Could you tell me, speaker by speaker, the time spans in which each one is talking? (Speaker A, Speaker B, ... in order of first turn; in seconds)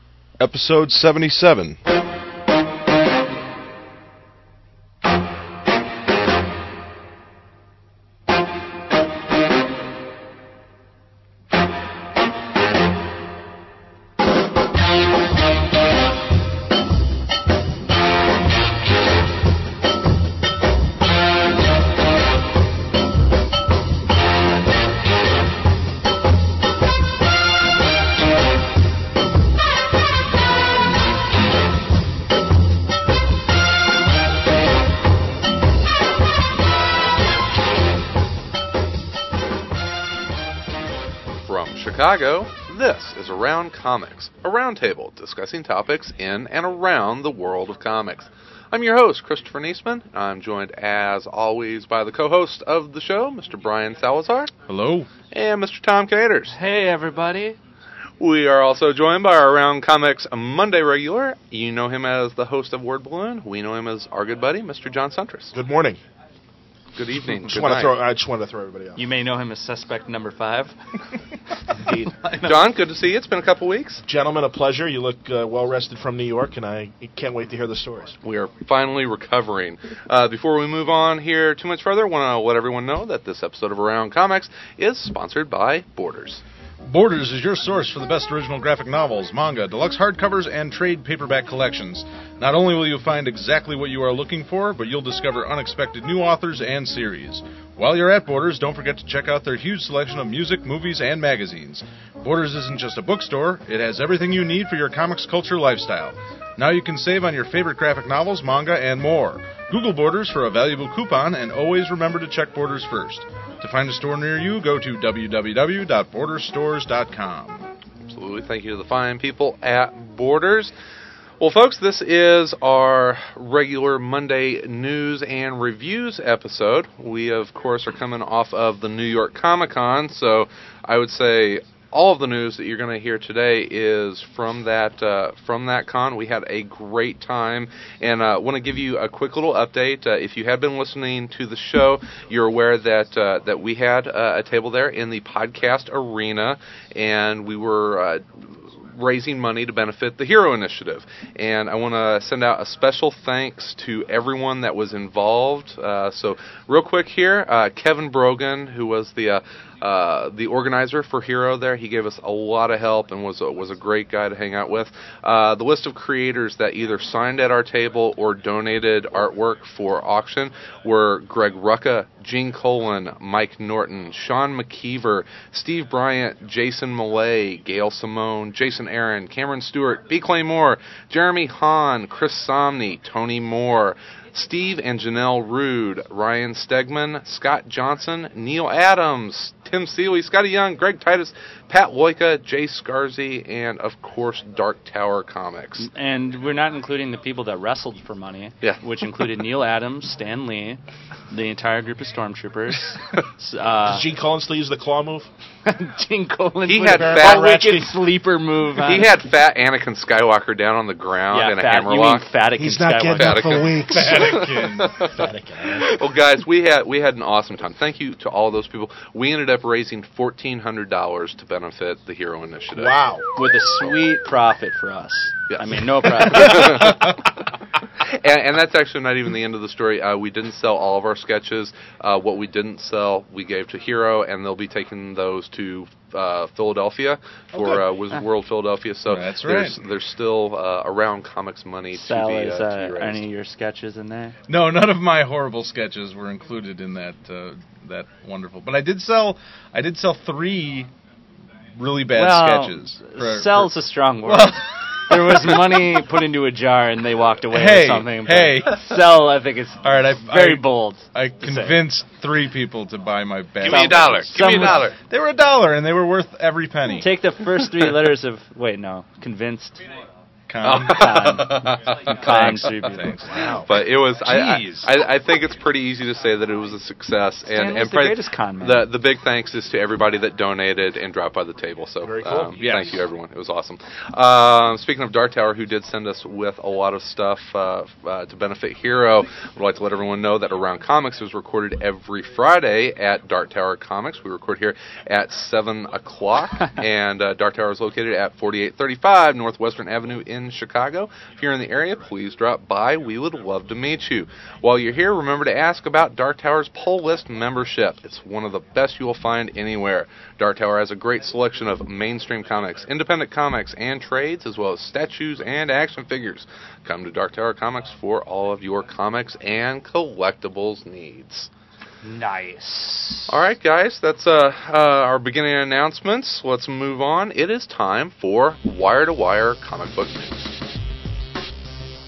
Speaker A: 0.4-1.8, 54.7-55.1, 86.8-117.7, 213.9-215.1, 239.1-239.8, 244.5-250.9, 251.7-255.8, 257.4-259.2, 259.8-267.2, 270.5-274.9, 282.6-283.1
Speaker B: 41.4-54.5, 55.3-56.6, 58.2-65.5, 67.0-68.0, 72.4-74.0, 78.2-86.4, 118.1-120.7, 121.4-195.9, 206.7-207.5, 208.8-212.3, 213.2-223.0, 223.7-223.9, 225.5-227.3, 228.0-243.3, 263.6-265.0, 270.6-272.6, 273.6-321.5, 323.3-330.5
Speaker C: 56.5-57.6, 69.0-70.8, 71.7-72.6, 195.8-204.1, 205.7-209.1, 211.3-213.7, 223.4-227.0, 241.9-244.3, 252.1-261.9, 263.6-264.9, 266.9-269.8, 270.6-273.4, 277.5-278.9, 322.0-323.4
Speaker D: 65.5-66.0, 67.5-69.0, 74.0-78.2, 203.8-205.3, 206.8-208.0, 212.6-216.0, 222.8-223.3, 237.5-237.8, 282.0-282.6